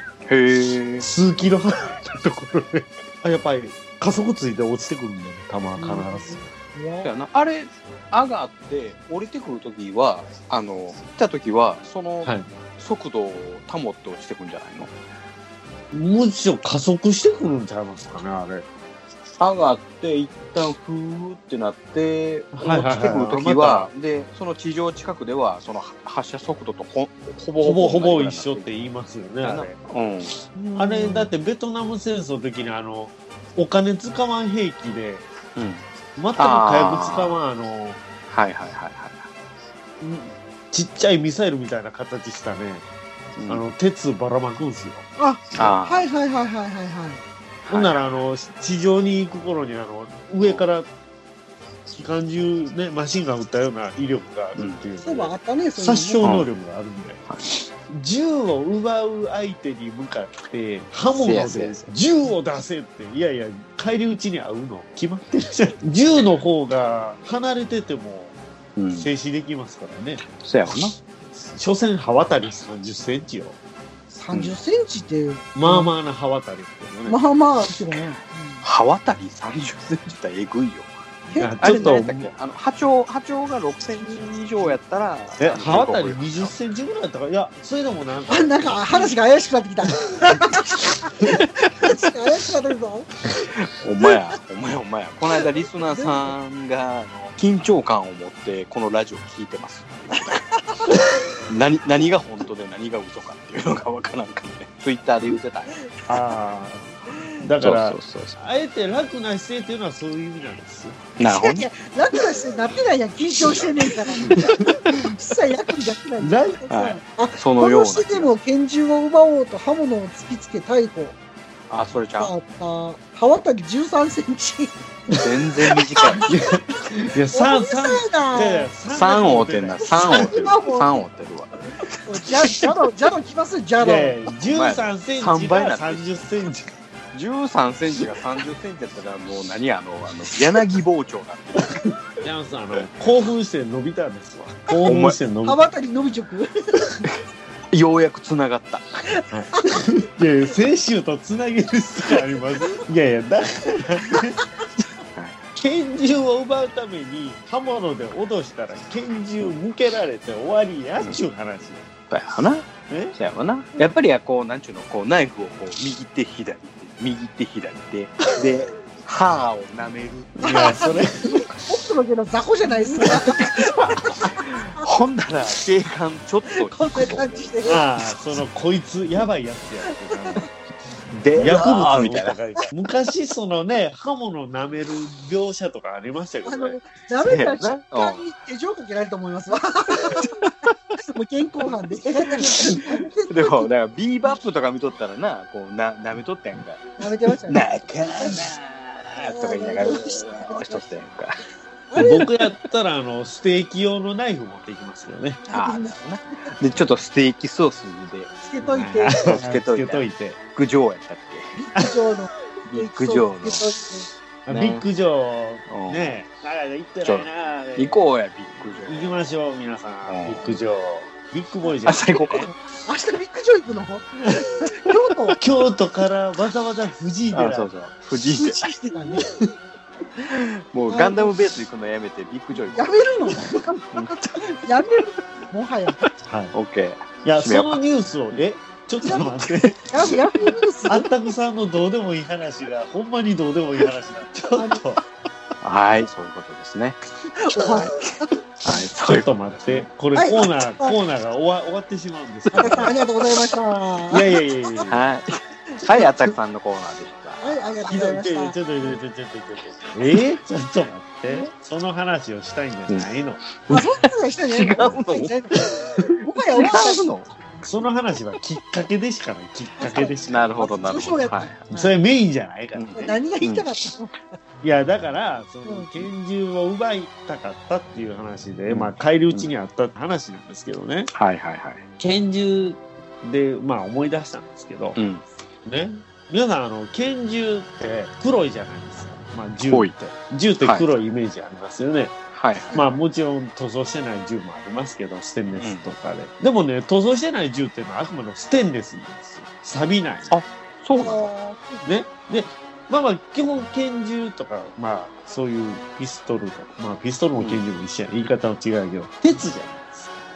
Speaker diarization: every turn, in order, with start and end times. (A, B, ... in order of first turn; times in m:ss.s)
0:00.2-0:01.1 A
0:01.0-0:06.4 B
0:05.8-0:07.1 C
0:07.0-0:14.9 A
0:15.9-0:18.6 B
0:19.4-0:28.7 A
0:22.5-0:23.9 B
0:27.6-0:29.7 B
0:29.4-0:30.4 A
0:30.5-0:31.3 C
0:30.8-0:35.2 B
0:35.6-0:35.8 A
0:36.2-0:38.0 B
0:36.4-0:37.4 A
0:38.3-0:39.3 A
0:40.0-0:42.8 B
0:43.4-0:43.6 A
0:43.5-0:45.0 B
0:45.2-0:47.2 C
0:45.5-0:46.1 A
0:47.6-0:48.1 A
0:47.7-0:50.9 B
0:51.9-0:57.2 B
0:55.0-0:56.4 C
0:56.2-0:56.5 A
0:57.3-0:57.6 A
0:57.9-1:08.4 B
1:01.1-1:01.9 A
1:08.8-1:09.1 A
1:09.0-1:10.2 B
1:10.4-1:11.0 A
1:11.4-1:13.6 B
1:14.1-1:15.9 C
1:14.3-1:14.6 A
1:15.5-1:17.2 B
1:17.1-1:18.6 C
1:18.6-1:20.9 A
1:21.3-1:22.0 C
1:21.4-1:22.3 B
1:21.6-1:26.5 A
1:25.4-1:28.9 B
1:28.3-1:33.1 C
1:33.5-1:40.4 A
1:35.5-1:36.3 C
1:41.4-1:46.1 A
1:46.1-1:51.0 B
1:47.6-1:48.4 A
1:51.2-1:51.6 A
1:51.3-2:01.2 C
1:54.3-1:54.5 B
1:56.2-1:56.6 B
1:56.7-1:58.3 A
2:01.7-2:02.3 A
2:02.2-2:04.7 C
2:05.1-2:10.5 B
2:05.2-2:06.3 A
2:06.0-2:06.4 C
2:07.3-2:08.7 C
2:08.9-2:11.8 A
2:10.0-2:11.0 C
2:12.0-2:14.2 C
2:13.8-2:16.7 B
2:14.4-2:16.0 A
2:17.1-2:21.8 A
2:22.2-2:25.6 B
2:24.8-2:25.2 A
2:25.4-2:27.0 C
2:27.7-2:28.8 A
2:29.3-2:34.4 B
2:35.6-2:41.8 B
2:42.1-2:51.0 A
2:42.9-2:43.1 B
2:50.4-2:51.4 B
2:50.4-2:54.9 C
2:53.1-2:57.8 A
2:56.5-2:57.8 C
2:57.7-3:00.4 B
3:01.1-3:02.4 A
3:01.4-3:06.8 B
3:06.4-3:10.3 C
3:07.2-3:08.2 A
3:07.5-3:07.7 B
3:10.1-3:10.5 A
3:11.1-3:13.7 C
3:12.6-3:21.4 A
3:17.0-3:17.6 C
3:19.2-3:20.8 C
3:21.9-3:22.3 C
3:22.0-3:25.4 B
3:22.0-3:22.3 A
3:25.5-3:26.4 C
3:25.5-3:28.3 A
3:28.4-3:29.4 C
3:28.6-3:30.4 B
3:29.2-3:31.6 A
3:31.6-3:34.1 C
3:32.6-3:33.6 A
3:34.4-3:38.0 B
3:34.5-3:34.8 A
3:35.7-3:36.2 A
3:37.0-3:39.2 A
3:38.8-3:42.5 B
3:40.0-3:40.6 A
3:41.8-3:42.5 A
3:42.8-3:45.4 C
3:45.4-3:47.7 B
3:47.3-3:48.7 A
3:48.4-3:49.2 C
3:50.3-3:54.6 A
3:50.9-3:51.3 C
3:52.7-3:56.0 C
3:56.0-3:57.8 A
3:56.2-3:56.5 B
3:57.2-3:59.8 B
3:59.1-3:59.7 A
3:59.9-4:01.1 C
4:00.9-4:05.0 B
4:05.6-4:07.0 A
4:07.5-4:08.3 C
4:07.6-4:08.0 A
4:08.6-4:09.8 A
4:09.0-4:12.9 B
4:10.1-4:11.0 C
4:12.4-4:12.9 A
4:12.5-4:14.9 C
4:14.1-4:15.0 B
4:14.9-4:17.8 A
4:17.4-4:19.0 C
4:17.8-4:23.4 B
4:22.9-4:23.8 A
4:23.7-4:27.1 C
4:24.5-4:25.6 A
4:26.5-4:27.3 A
4:27.6-4:30.6 B
4:29.8-4:31.9 C
4:30.3-4:31.6 A
4:31.7-4:33.1 B
4:32.7-4:33.7 A
4:33.0-4:34.4 C
4:34.6-4:41.1 B
4:35.6-4:36.1 C
4:38.7-4:39.5 A
4:41.1-4:41.8 A
4:42.0-4:45.0 B
4:45.0-4:45.2 A
4:45.6-4:52.1 B
4:49.7-4:49.9 A
4:50.6-4:50.9 A
4:52.3-4:52.8 A
4:52.7-5:00.3 B
4:55.6-4:55.9 A
5:00.3-5:01.3 A
5:01.0-5:01.9 C
5:01.8-5:10.1 B
5:07.4-5:07.6 A